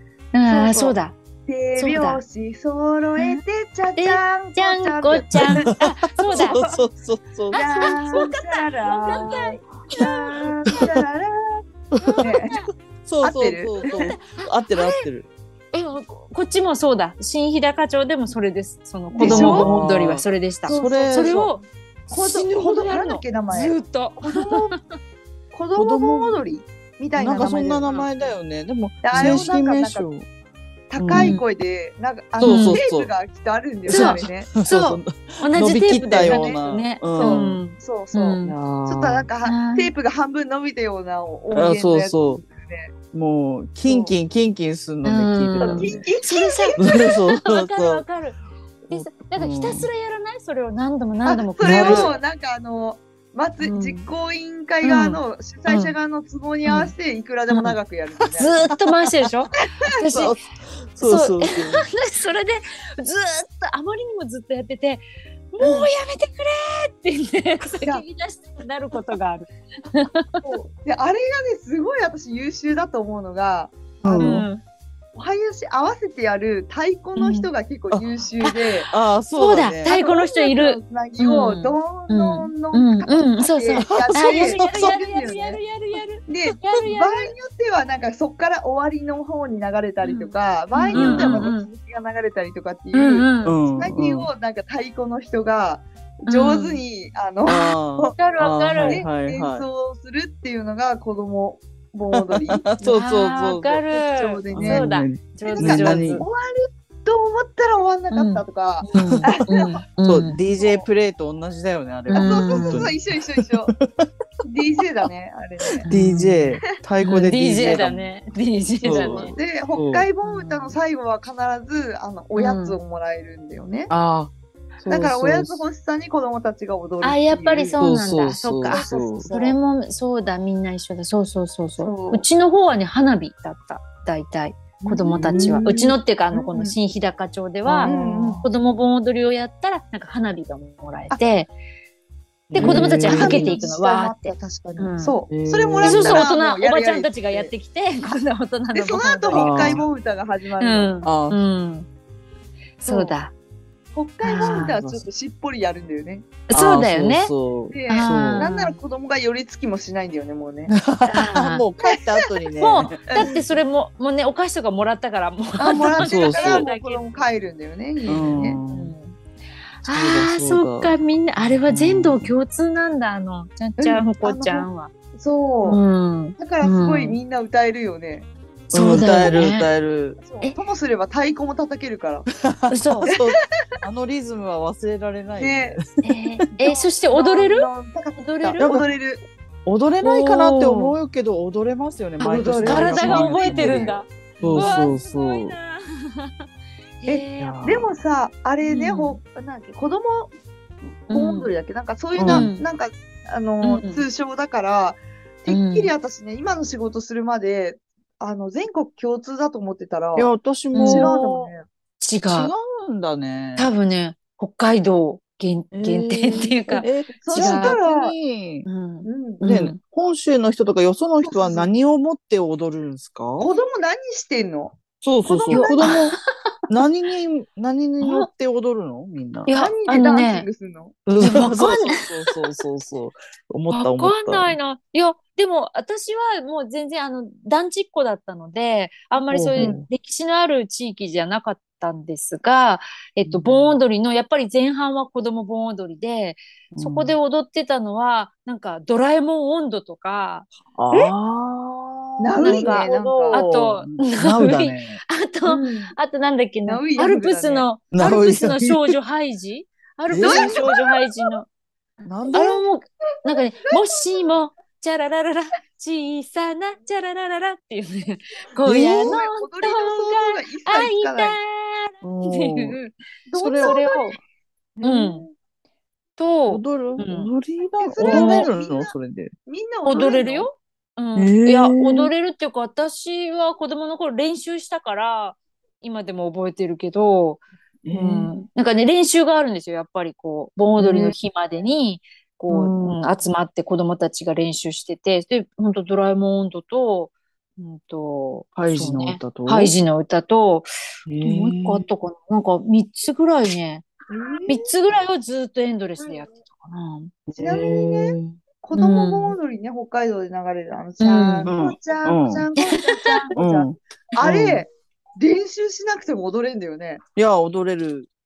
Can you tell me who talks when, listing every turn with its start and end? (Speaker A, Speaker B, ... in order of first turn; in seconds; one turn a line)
Speaker A: 0.3-1.1
Speaker B: 0.5-6.8
Speaker A: 1.8-2.2
Speaker A: 4.0-6.6
Speaker C: 5.3-7.9
Speaker A: 7.5-10.9
Speaker B: 7.5-11.6
Speaker A: 12.0-12.7
Speaker C: 12.0-15.3
Speaker B: 12.2-12.5
Speaker B: 13.2-13.9
Speaker A: 13.8-15.0
Speaker A: 15.7-24.7
Speaker B: 19.1-19.7
Speaker C: 19.2-21.5
Speaker B: 20.6-21.5
Speaker B: 22.1-24.7
Speaker B: 25.5-28.3
Speaker C: 25.8-26.4
Speaker C: 27.1-30.3
Speaker A: 27.8-28.1
Speaker B: 29.0-30.1
Speaker A: 29.1-29.5
Speaker B: 30.9-35.0
Speaker C: 30.9-31.4
Speaker A: 31.1-31.4
Speaker C: 32.4-33.1
Speaker A: 32.4-32.8
Speaker C: 33.8-37.6
Speaker A: 33.9-38.6
Speaker B: 36.2-42.9
Speaker C: 38.4-39.3
Speaker A: 39.4-39.9
Speaker C: 41.5-42.4
Speaker C: 43.1-46.1
Speaker B: 43.9-44.1
Speaker A: 45.0-48.4
Speaker B: 45.6-46.9
Speaker C: 46.8-48.0
Speaker C: 48.9-49.9
Speaker A: 48.9-52.1
Speaker B: 51.2-58.7
Speaker C: 51.6-52.1
Speaker A: 53.6-54.1
Speaker A: 54.8-55.9
Speaker A: 56.6-56.9
Speaker A: 57.5-57.8
Speaker A: 58.3-60.4
Speaker B: 60.0-60.3
Speaker C: 60.1-61.8
Speaker A: 61.0-70.4
Speaker B: 65.6-65.9
Speaker B: 70.4-74.3
Speaker C: 74.0-74.5
Speaker A: 74.1-74.6
Speaker B: 75.1-78.9
Speaker A: 77.2-77.5
Speaker C: 78.9-80.0
Speaker A: 79.3-87.3
Speaker B: 79.8-85.6
Speaker C: 83.8-85.0
Speaker B: 86.2-98.1
Speaker A: 90.0-91.7
Speaker C: 90.9-91.5
Speaker A: 92.9-93.5
Speaker C: 93.4-94.3
Speaker A: 96.2-96.8
Speaker C: 97.5-99.7
Speaker A: 98.0-99.0
Speaker B: 98.9-103.0
Speaker C: 102.1-103.8
Speaker A: 102.8-106.2
Speaker B: 103.9-104.9
Speaker C: 104.5-106.2
Speaker B: 105.4-109.8
Speaker A: 108.1-110.4
Speaker C: 109.0-109.5
Speaker C: 110.0-114.1
Speaker B: 110.6-110.8
Speaker B: 112.1-113.7
Speaker A: 112.1-112.9
Speaker B: 114.4-115.8
Speaker A: 115.8-119.3
Speaker C: 115.8-118.1
Speaker C: 118.8-120.1
Speaker B: 118.9-123.9
Speaker A: 120.2-120.8
Speaker A: 122.3-122.8
Speaker C: 123.9-125.6
Speaker B: 124.9-127.8
Speaker A: 127.0-141.5
Speaker C: 127.8-129.3
Speaker B: 128.6-129.6
Speaker B: 131.8-132.3
Speaker B: 134.8-136.8
Speaker C: 135.1-135.8
Speaker C: 137.7-138.5
Speaker B: 137.8-138.5
Speaker C: 142.5-143.6
Speaker B: 142.5-147.5
Speaker A: 142.6-145.2
Speaker C: 145.3-146.3
Speaker A: 145.8-149.8
Speaker B: 148.7-151.0
Speaker C: 149.3-149.8
Speaker A: 150.6-151.9
Speaker C: 151.0-151.4
Speaker A: 152.8-153.3
Speaker B: 152.8-153.2
Speaker B: 153.9-156.3
Speaker A: 154.2-154.8
Speaker C: 154.4-155.1
Speaker A: 156.5-157.3
Speaker C: 156.5-158.5
Speaker B: 157.7-160.7
Speaker A: 157.9-158.8
Speaker C: 160.7-163.3
Speaker A: 161.0-161.6
Speaker A: 162.6-167.3
Speaker B: 163.1-163.4
Speaker B: 165.6-168.6
Speaker C: 166.0-166.6
Speaker C: 168.1-168.9
Speaker A: 168.7-169.2
Speaker A: 169.8-174.9
Speaker C: 169.8-172.3
Speaker B: 173.8-175.8
Speaker A: 175.6-177.2
Speaker B: 176.4-178.3
Speaker A: 178.7-179.7
Speaker C: 178.7-180.2
Speaker B: 180.2-182.3
Speaker C: 182.4-185.8
Speaker A: 182.7-183.1
Speaker B: 183.1-183.4
Speaker B: 185.3-185.8
Speaker A: 186.0-188.7
Speaker B: 186.6-189.2
Speaker C: 188.6-188.8
Speaker C: 189.7-195.6
Speaker A: 190.0-190.9
Speaker B: 192.2-194.8
Speaker A: 192.3-196.4
Speaker A: 197.0-197.7
Speaker B: 197.1-200.3
Speaker C: 197.4-197.9
Speaker A: 198.6-199.2
Speaker B: 201.0-211.7
Speaker A: 201.1-201.5
Speaker C: 202.1-202.5
Speaker A: 202.2-202.6
Speaker A: 203.6-204.0
Speaker A: 205.5-205.9
Speaker C: 210.2-211.5
Speaker A: 210.7-211.2
Speaker A: 212.0-212.5
Speaker C: 212.3-213.7
Speaker A: 213.6-217.8
Speaker C: 215.7-218.7
Speaker B: 216.8-218.1
Speaker A: 218.6-219.8
Speaker B: 219.0-219.5
Speaker C: 219.4-223.5
Speaker B: 221.2-221.7
Speaker B: 223.4-224.8
Speaker C: 225.0-226.2
Speaker B: 225.3-225.7
Speaker A: 225.5-226.2
Speaker C: 226.7-229.5
Speaker A: 228.0-228.3
Speaker A: 229.5-230.5
Speaker B: 229.5-231.1
Speaker C: 231.1-234.6
Speaker A: 231.2-232.0
Speaker A: 233.7-251.1
Speaker C: 239.3-239.9
Speaker C: 243.2-243.8
Speaker C: 246.7-247.1
Speaker C: 250.7-255.0
Speaker B: 252.2-253.4
Speaker A: 252.4-261.5
Speaker B: 255.4-255.9
Speaker B: 256.6-257.7
Speaker C: 257.9-258.9
Speaker C: 260.1-261.0
Speaker B: 260.1-260.7
Speaker C: 262.0-262.6
Speaker A: 262.3-272.8
Speaker B: 263.3-264.3
Speaker C: 268.6-269.2
Speaker B: 268.9-271.4
Speaker C: 272.0-272.8
Speaker B: 272.8-274.2
Speaker C: 273.4-273.9
Speaker A: 273.4-274.2
Speaker B: 274.8-275.3
Speaker A: 274.8-275.2
Speaker A: 276.2-277.3
Speaker C: 276.5-279.3
Speaker B: 277.8-278.9
Speaker A: 278.0-278.5
Speaker B: 279.5-280.5
Speaker A: 279.8-300.7
Speaker C: 281.1-282.1
Speaker C: 287.8-288.3
Speaker C: 290.8-291.1
Speaker C: 292.5-293.0
Speaker C: 298.6-299.8
Speaker C: 301.1-301.9
Speaker A: 301.2-303.8
Speaker B: 304.1-304.6
Speaker A: 304.5-307.1
Speaker C: 307.3-308.3
Speaker B: 307.4-317.0
Speaker A: 308.7-309.4
Speaker A: 311.0-311.5
Speaker C: 311.4-312.4
Speaker A: 312.5-313.3
Speaker C: 313.4-314.6
Speaker C: 317.1-318.1